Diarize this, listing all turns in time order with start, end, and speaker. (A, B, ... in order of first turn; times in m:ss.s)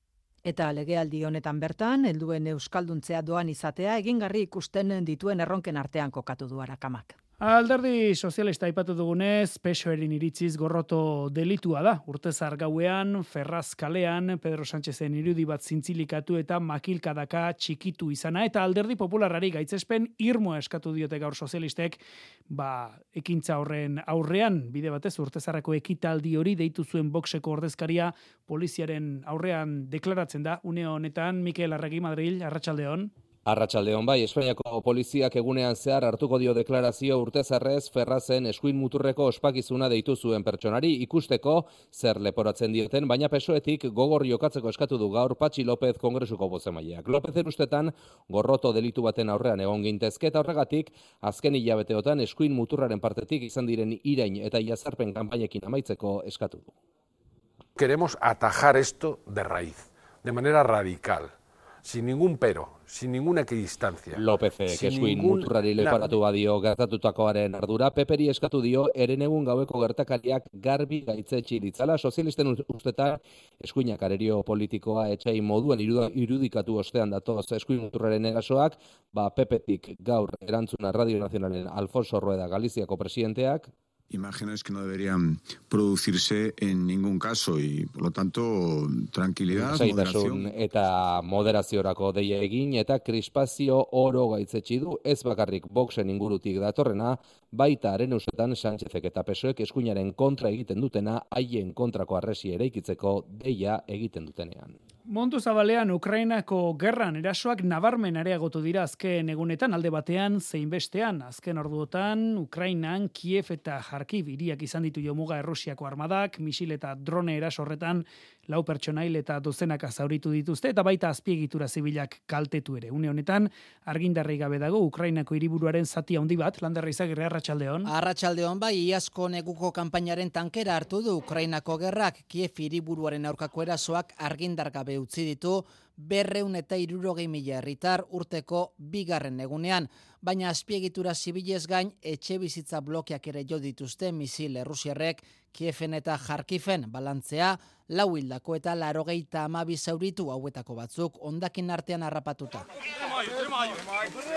0:00.4-0:07.2 A
0:07.4-0:33.1 B
0:33.4-0:56.7 C
0:57.8-1:01.3 D
1:01.8-1:06.1 D
1:04.1-1:23.7 C
1:24.1-1:30.6 E
1:29.5-1:44.7 C
1:45.1-2:07.9 B
2:07.8-2:32.6 F